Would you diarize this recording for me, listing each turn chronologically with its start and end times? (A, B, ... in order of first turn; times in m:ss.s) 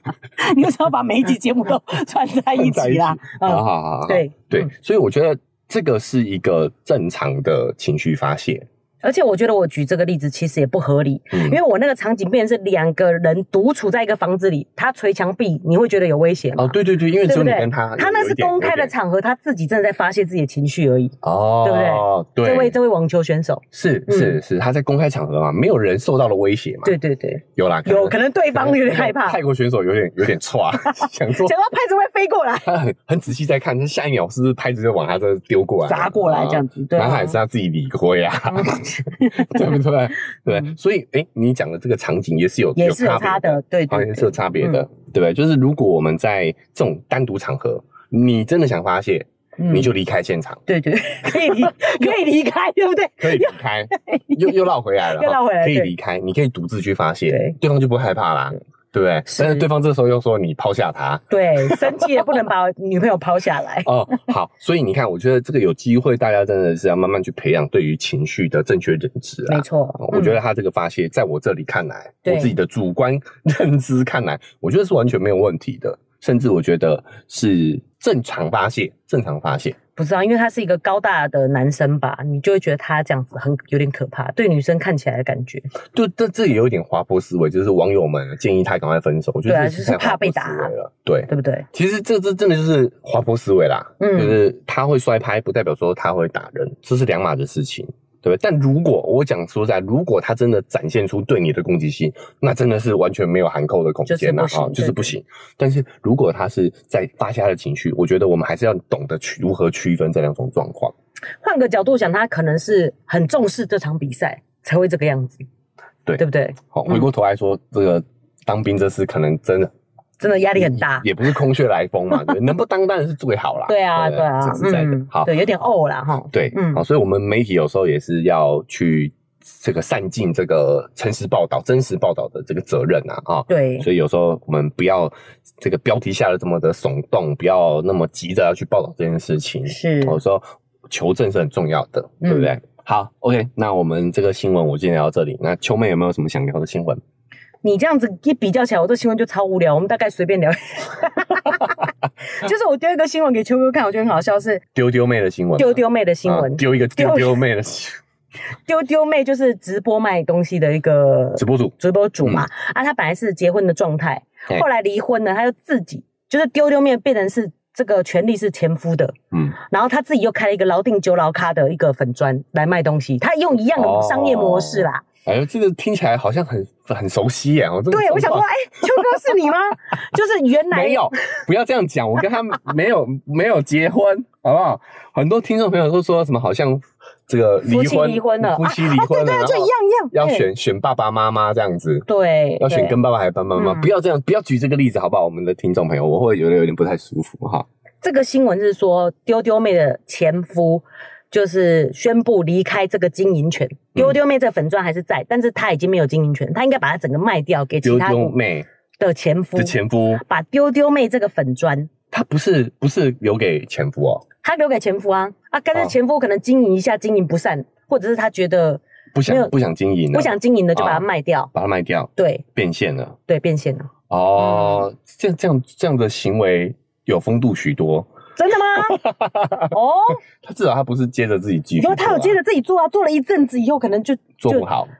0:00.4-0:04.7 A
0:02.6-0:08.6 B
0:09.0-0:24.4 A
0:11.3-0:11.6 B
0:16.6-0:18.9 B
0:21.2-0:22.8 B
0:23.7-0:26.9 B
0:26.8-0:29.4 A
0:27.6-0:31.5 B
0:31.0-0:32.7 A
0:32.6-0:50.6 B
0:35.8-0:37.4 A
0:38.5-0:39.8 A
0:42.8-0:44.8 A
0:49.6-0:49.9 A
0:50.7-0:55.9 A
0:53.2-1:02.1 B
0:57.3-0:57.6 A
0:59.3-0:59.6 A
1:01.3-1:03.9 A
1:03.8-1:19.8 B
1:09.5-1:10.4 A
1:12.2-1:12.5 A
1:20.0-1:25.7 A
1:25.9-1:50.9 B
1:29.4-1:30.7 A
1:31.3-1:31.7 A
1:34.0-1:34.4 A
1:44.1-1:45.1 A
1:51.4-1:55.4 A
1:56.0-1:59.7 B
1:56.2-1:57.1 A
2:00.2-2:01.1 A
2:00.5-2:05.3 B
2:03.7-2:06.8 A
2:06.3-2:27.0 B
2:13.5-2:13.9 A
2:19.7-2:20.2 A
2:22.2-2:22.5 A
2:27.6-2:34.6 A
2:34.7-2:38.0 B
2:35.6-2:37.4 A
2:38.6-2:55.0 A
2:41.4-2:42.5 B
2:49.3-2:49.6 B
2:53.8-2:59.4 B
2:57.9-3:01.1 A
3:00.7-3:12.1 B
3:07.6-3:10.4 A
3:12.1-3:13.0 A
3:12.6-3:17.6 B
3:13.6-3:13.9 A
3:18.0-3:28.3 A
3:27.8-3:28.7 B
3:29.0-3:31.9 A
3:29.6-3:30.2 B
3:32.1-3:34.2 B
3:34.4-3:39.5 A
3:39.1-3:43.2 B
3:40.1-3:41.5 A
3:42.2-3:42.4 A
3:43.3-3:44.8 A
3:44.1-3:48.1 B
3:48.4-3:49.0 A
3:48.7-3:49.7 B
3:49.7-3:50.2 A
3:50.4-3:52.4 B
3:51.8-3:54.7 A
3:54.4-3:54.9 B